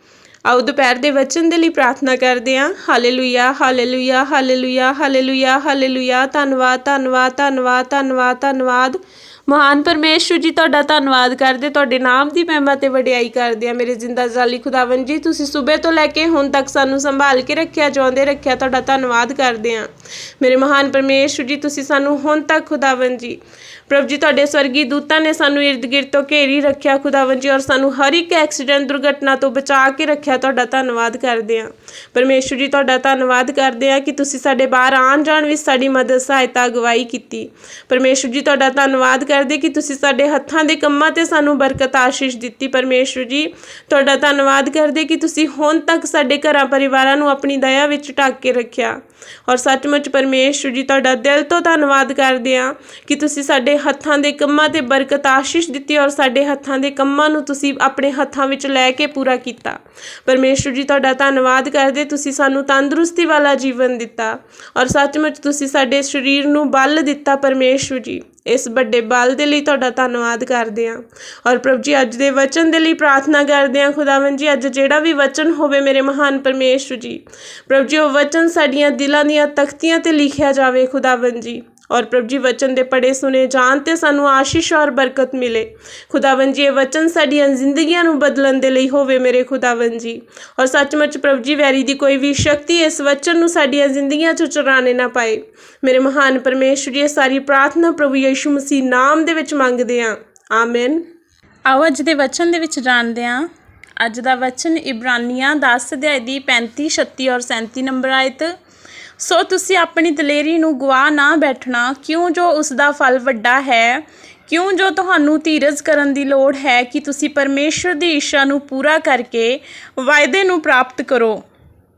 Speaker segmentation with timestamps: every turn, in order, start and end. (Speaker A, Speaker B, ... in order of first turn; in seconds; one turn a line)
Speaker A: 0.5-3.8
Speaker B: 0.5-1.6
Speaker B: 2.7-8.9
Speaker A: 5.4-6.6
Speaker A: 7.2-7.8
Speaker A: 9.6-13.0
Speaker B: 10.2-12.0
Speaker B: 12.9-19.7
Speaker A: 15.8-17.2
Speaker A: 18.9-19.8
Speaker B: 20.4-23.4
Speaker B: 23.9-49.0
Speaker B: 49.5-101.0
Speaker A: 82.3-82.6
Speaker A: 101.7-103.5
Speaker A: 104.0-108.5
Speaker A: 109.2-121.4